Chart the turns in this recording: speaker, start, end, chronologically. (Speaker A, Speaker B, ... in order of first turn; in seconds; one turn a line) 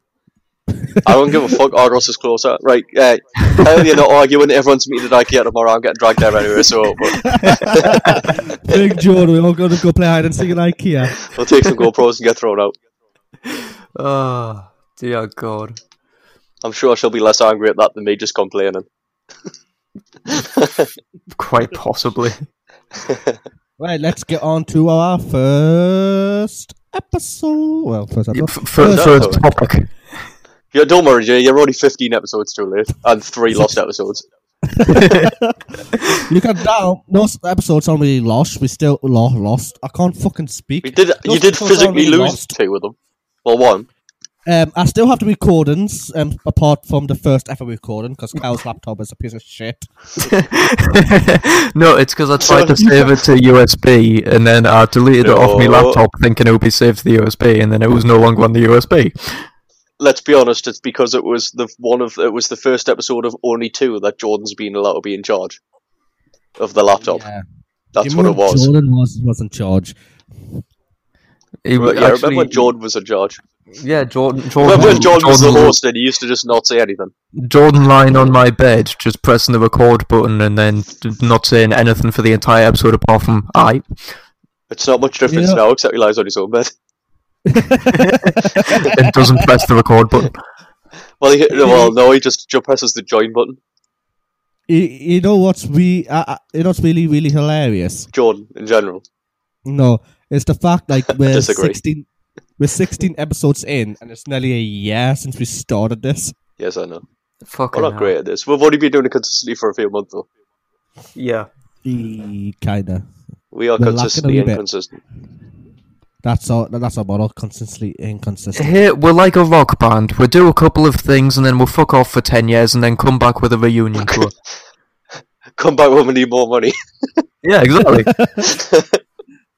Speaker A: 1.0-8.3
Speaker B: 7.2-11.2
Speaker A: 11.2-12.8
Speaker C: 13.9-15.8
Speaker A: 16.6-18.9
Speaker A: 20.3-20.9
Speaker C: 21.4-22.4
Speaker A: 23.0-23.4
Speaker B: 23.8-29.4
Speaker C: 28.3-29.9
Speaker A: 28.8-29.4
Speaker A: 30.7-34.3
Speaker B: 34.7-35.7
Speaker C: 34.9-35.3
Speaker B: 36.2-42.5
Speaker A: 40.8-43.9
Speaker B: 44.5-49.9
Speaker C: 50.2-59.5
Speaker A: 52.4-53.1
Speaker A: 55.2-56.0
Speaker A: 60.0-65.6
Speaker A: 66.6-67.2
Speaker B: 67.1-67.5
Speaker A: 68.0-68.7
Speaker B: 68.0-70.0
Speaker C: 71.6-72.7
Speaker A: 71.8-73.4
Speaker C: 73.8-75.8
Speaker A: 74.6-77.1
Speaker B: 74.7-75.1
Speaker C: 77.4-83.8
Speaker A: 84.7-86.7
Speaker B: 85.3-85.6
Speaker B: 87.5-89.5
Speaker A: 88.6-88.9
Speaker C: 88.8-90.4
Speaker A: 91.2-93.6
Speaker B: 91.5-92.0
Speaker B: 94.7-98.1
Speaker A: 98.1-99.0
Speaker B: 99.7-102.1
Speaker A: 101.3-101.8
Speaker B: 102.6-106.3
Speaker A: 106.6-107.0
Speaker C: 107.5-108.1
Speaker A: 107.7-110.3
Speaker C: 111.2-111.5
Speaker B: 111.8-113.1
Speaker A: 113.5-115.0
Speaker B: 113.8-114.6
Speaker B: 116.2-118.8
Speaker C: 118.6-124.3
Speaker A: 124.0-124.3
Speaker A: 125.6-126.7
Speaker C: 127.4-128.2
Speaker B: 128.1-128.5
Speaker A: 128.5-129.0